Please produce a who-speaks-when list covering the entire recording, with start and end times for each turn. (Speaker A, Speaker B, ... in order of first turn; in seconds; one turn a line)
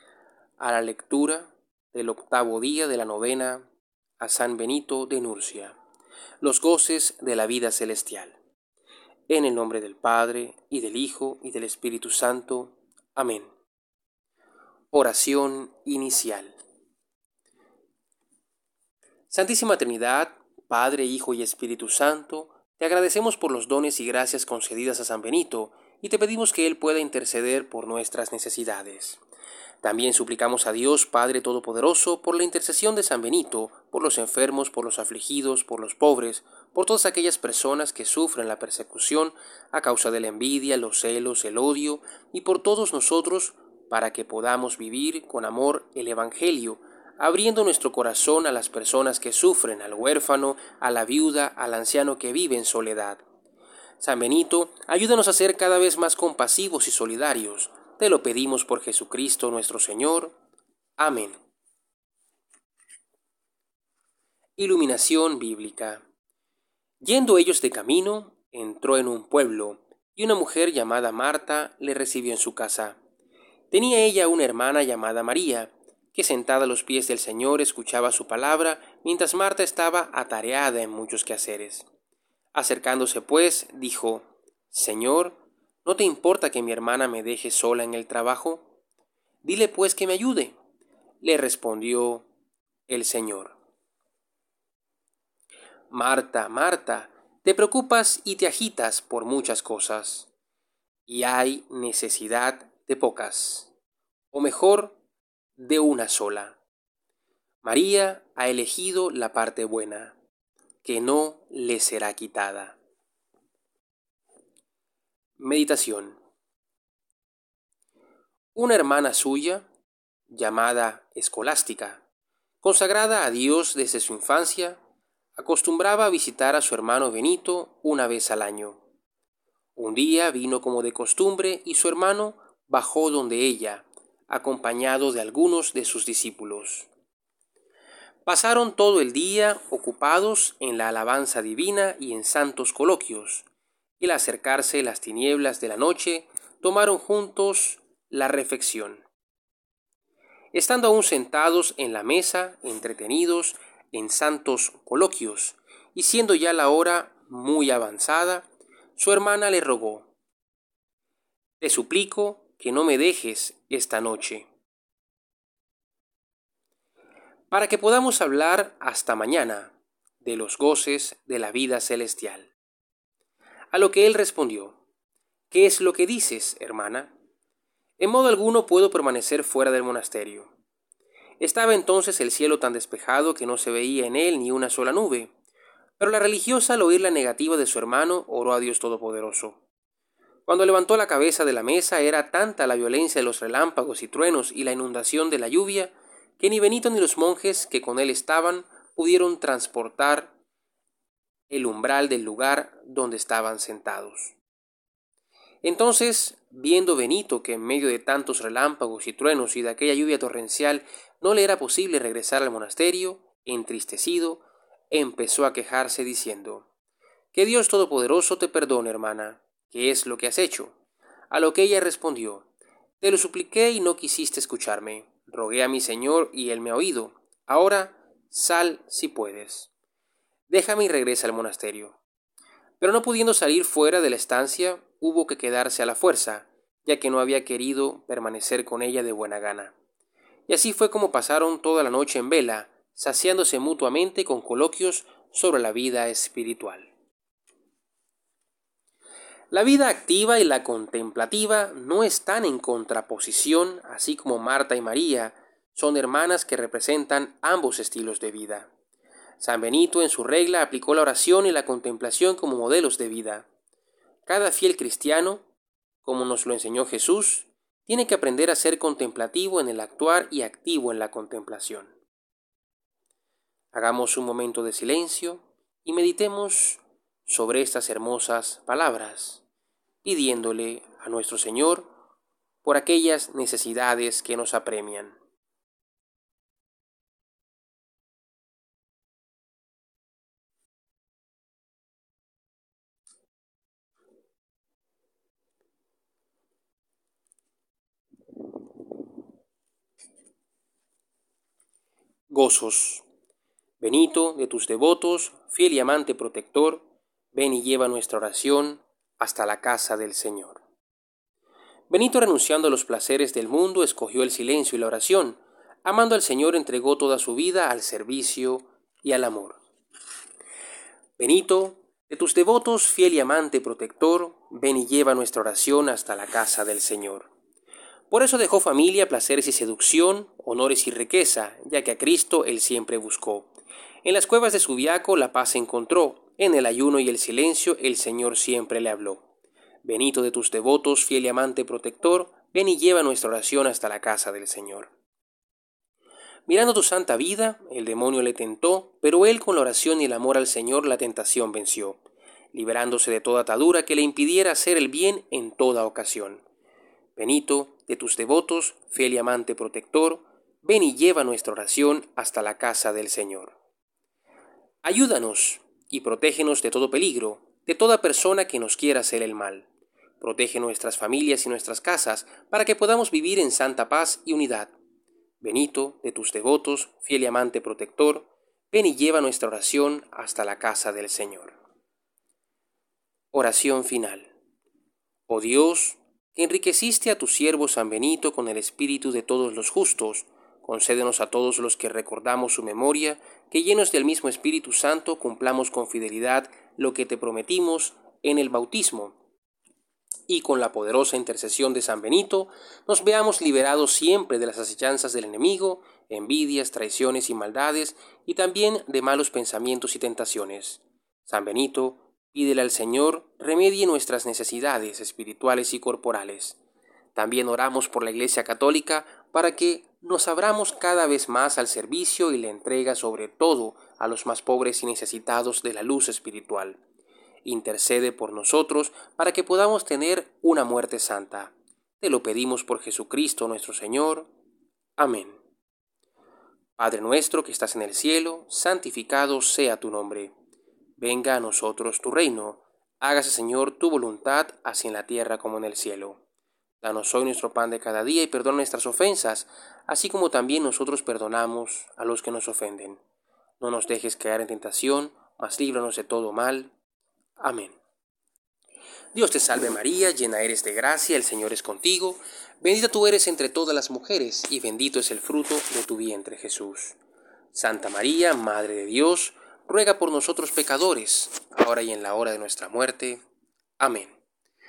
Speaker A: 0.6-3.6
Speaker A: 4.2-5.8
Speaker A: 6.4-8.3
Speaker A: 9.3-13.5
Speaker A: 14.9-16.5
Speaker A: 19.3-29.2
Speaker A: 29.8-53.2
Speaker A: 54.0-60.3
Speaker A: 61.0-61.3
Speaker A: 64.6-66.0
Speaker A: 67.0-73.0
Speaker A: 73.7-81.8
Speaker A: 82.5-88.7
Speaker A: 89.4-90.5
Speaker A: 91.2-92.2
Speaker A: 92.9-93.6
Speaker A: 95.9-100.3
Speaker A: 101.1-103.7
Speaker A: 104.3-105.0
Speaker A: 105.6-106.6
Speaker A: 107.6-110.2
Speaker A: 110.8-112.8
Speaker A: 115.4-116.2
Speaker A: 118.5-119.7
Speaker A: 120.3-122.0
Speaker A: 122.6-124.8
Speaker A: 125.3-128.8
Speaker A: 129.8-136.9
Speaker A: 138.2-143.4
Speaker A: 144.0-149.0
Speaker A: 150.5-160.1
Speaker A: 161.6-164.5
Speaker A: 167.5-172.5
Speaker A: 173.7-174.8
Speaker A: 175.5-177.1
Speaker A: 178.0-180.5
Speaker A: 181.4-185.3
Speaker A: 186.0-189.6
Speaker A: 190.5-200.3
Speaker A: 201.5-204.3
Speaker A: 205.6-216.7
Speaker A: 217.3-220.7
Speaker A: 221.3-222.5
Speaker A: 223.0-229.7
Speaker A: 230.5-232.0
Speaker A: 232.8-239.7
Speaker A: 240.5-246.9
Speaker A: 249.5-258.7
Speaker A: 259.4-263.4
Speaker A: 264.2-265.4
Speaker A: 266.0-271.9
Speaker A: 273.7-279.4
Speaker A: 280.0-281.9
Speaker A: 282.6-285.1
Speaker A: 302.3-303.0
Speaker A: 303.8-310.6
Speaker A: 311.9-319.6
Speaker A: 321.2-327.3
Speaker A: 328.1-333.5
Speaker A: 334.0-339.2
Speaker A: 339.8-344.9
Speaker A: 346.5-352.0
Speaker A: 352.5-356.4
Speaker A: 357.1-363.5
Speaker A: 364.8-369.7
Speaker A: 370.2-374.7
Speaker A: 375.4-381.6
Speaker A: 383.3-384.3
Speaker A: 385.3-399.1
Speaker A: 400.3-416.6
Speaker A: 417.1-426.8
Speaker A: 427.4-434.3
Speaker A: 435.0-435.4
Speaker A: 436.8-440.3
Speaker A: 441.0-446.2
Speaker A: 446.8-453.0
Speaker A: 453.6-456.7
Speaker A: 457.4-457.8
Speaker A: 459.1-467.0
Speaker A: 467.5-473.2
Speaker A: 473.8-474.2